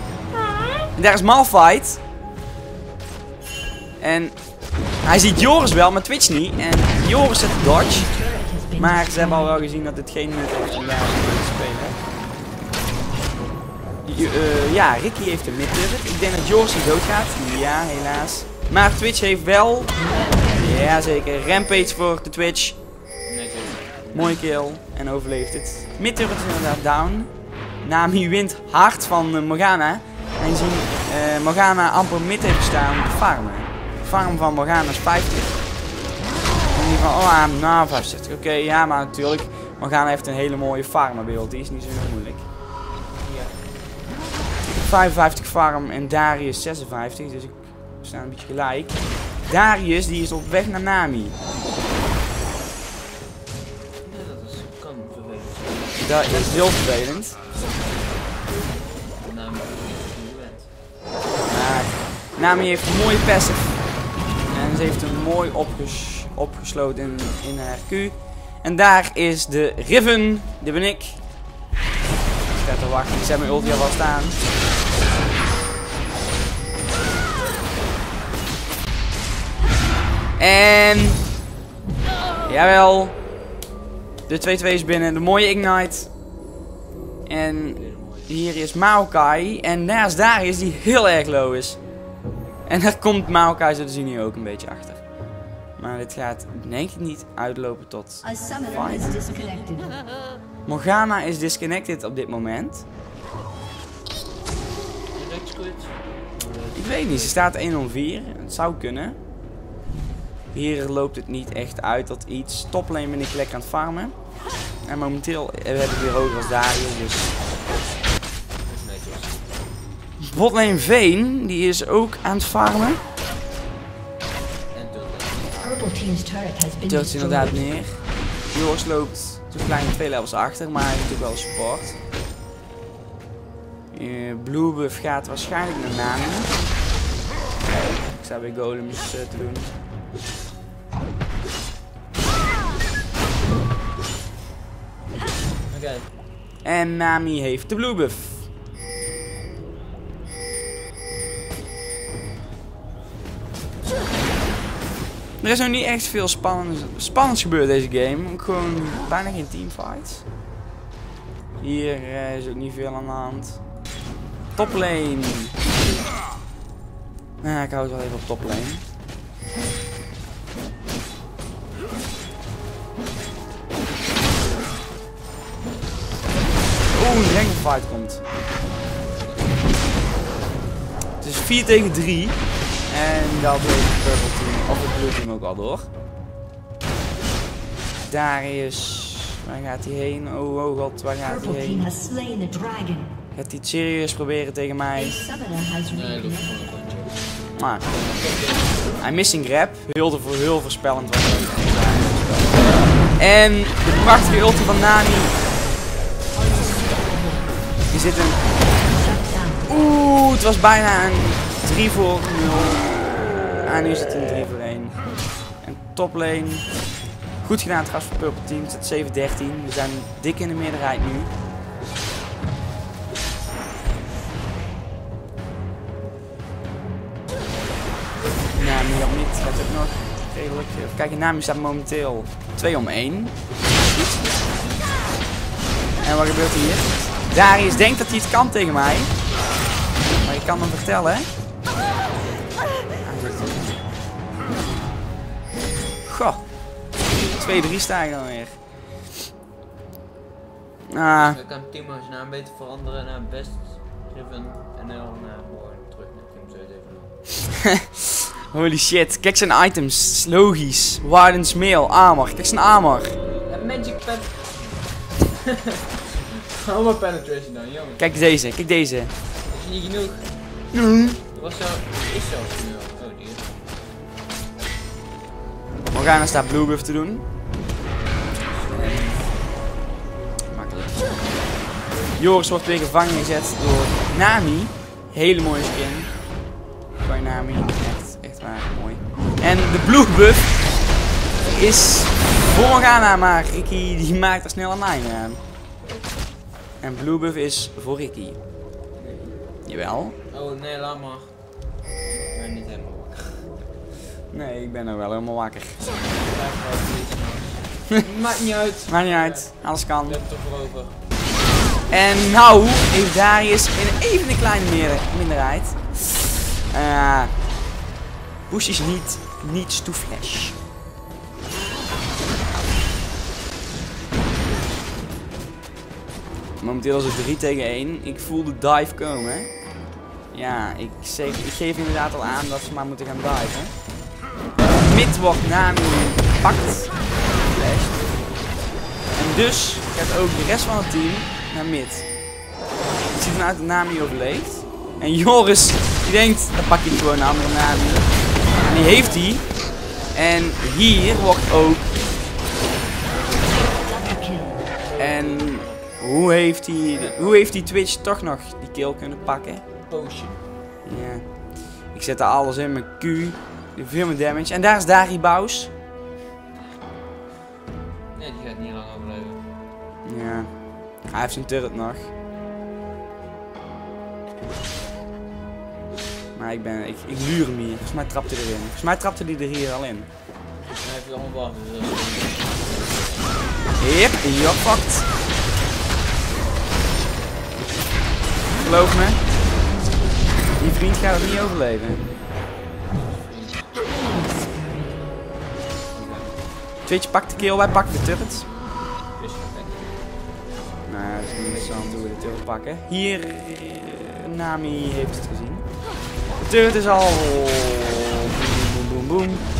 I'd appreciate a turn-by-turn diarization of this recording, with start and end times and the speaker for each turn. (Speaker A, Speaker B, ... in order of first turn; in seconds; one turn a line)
Speaker A: 1.0-2.0
Speaker A: 4.0-4.3
Speaker A: 5.0-8.1
Speaker B: 7.8-9.6
Speaker A: 8.8-12.0
Speaker A: 14.0-22.8
Speaker B: 19.9-21.0
Speaker C: 23.2-24.4
Speaker A: 24.1-27.3
Speaker A: 27.8-35.6
Speaker A: 36.7-42.4
Speaker C: 43.2-43.5
Speaker A: 44.7-51.4
Speaker C: 54.0-56.8
Speaker A: 56.0-57.4
Speaker C: 59.2-60.7
Speaker A: 61.5-63.8
Speaker A: 64.5-71.2
Speaker A: 72.5-74.4
Speaker A: 80.4-81.2
Speaker A: 82.4-83.2
Speaker A: 84.3-86.1
Speaker A: 87.2-91.8
Speaker C: 87.7-88.4
Speaker A: 92.7-95.0
Speaker A: 95.8-99.2
Speaker B: 98.2-100.0
Speaker A: 100.7-102.8
Speaker C: 105.1-107.5
Speaker A: 106.7-109.2
Speaker A: 110.5-114.1
Speaker A: 114.8-117.3
Speaker C: 118.7-119.6
Speaker A: 120.2-123.0
Speaker C: 124.7-125.8
Speaker B: 125.6-127.8
Speaker A: 126.9-132.0
Speaker A: 133.9-136.5
Speaker A: 137.7-139.7
Speaker C: 145.7-146.1
Speaker A: 146.6-148.5
Speaker A: 155.4-160.2
Speaker A: 161.6-163.6
Speaker A: 164.6-165.6
Speaker A: 167.4-168.8
Speaker A: 176.9-178.2
Speaker C: 179.1-179.6
Speaker A: 181.2-185.9
Speaker A: 188.0-191.9
Speaker B: 191.2-193.2
Speaker A: 193.3-195.2
Speaker B: 194.9-196.7
Speaker C: 195.9-197.2
Speaker A: 197.6-197.9
Speaker C: 197.9-199.0
Speaker A: 199.0-202.6
Speaker A: 203.2-205.3
Speaker B: 204.0-204.9
Speaker B: 206.3-207.7
Speaker A: 207.9-208.4
Speaker B: 208.9-209.7
Speaker A: 209.7-212.9
Speaker A: 213.6-214.9
Speaker A: 215.6-216.7
Speaker A: 217.4-221.3
Speaker A: 228.5-233.3
Speaker A: 236.0-239.1
Speaker A: 240.0-241.3
Speaker C: 241.7-242.7
Speaker A: 243.0-243.8
Speaker A: 246.0-246.4
Speaker A: 247.3-248.6
Speaker A: 250.9-251.4
Speaker C: 251.0-257.1
Speaker A: 257.5-263.1
Speaker C: 263.4-268.1
Speaker A: 268.0-269.1
Speaker C: 269.5-270.3
Speaker A: 270.7-271.2
Speaker C: 271.3-273.9
Speaker A: 275.9-277.2
Speaker C: 278.4-279.3
Speaker A: 278.7-279.2
Speaker A: 280.5-281.2
Speaker A: 282.2-286.1
Speaker A: 287.0-290.6
Speaker A: 291.5-295.4
Speaker A: 296.8-298.4
Speaker C: 299.0-299.4
Speaker A: 299.6-300.1
Speaker C: 300.3-301.3
Speaker C: 302.1-303.5
Speaker A: 304.3-305.8
Speaker C: 306.1-311.0
Speaker A: 308.9-310.2
Speaker A: 311.9-317.3
Speaker A: 318.5-320.6
Speaker A: 326.6-329.5
Speaker A: 330.3-333.7
Speaker A: 334.7-338.1
Speaker A: 339.1-342.1
Speaker A: 343.1-349.4
Speaker C: 348.5-349.2
Speaker A: 350.1-352.0
Speaker B: 353.5-354.7
Speaker C: 354.8-355.9
Speaker A: 355.0-359.6
Speaker C: 356.9-357.5
Speaker C: 359.9-360.4
Speaker A: 360.8-361.2
Speaker A: 361.9-365.7
Speaker C: 368.1-369.4
Speaker A: 370.0-370.5
Speaker A: 371.1-372.1
Speaker A: 376.3-380.1
Speaker C: 380.6-383.4
Speaker A: 383.8-385.1
Speaker A: 388.6-389.2
Speaker A: 390.6-392.1
Speaker C: 392.9-393.7
Speaker B: 393.7-395.1
Speaker C: 395.9-396.4
Speaker A: 396.9-398.4
Speaker C: 399.1-400.0
Speaker A: 400.9-405.6
Speaker C: 401.1-402.1
Speaker A: 406.4-409.4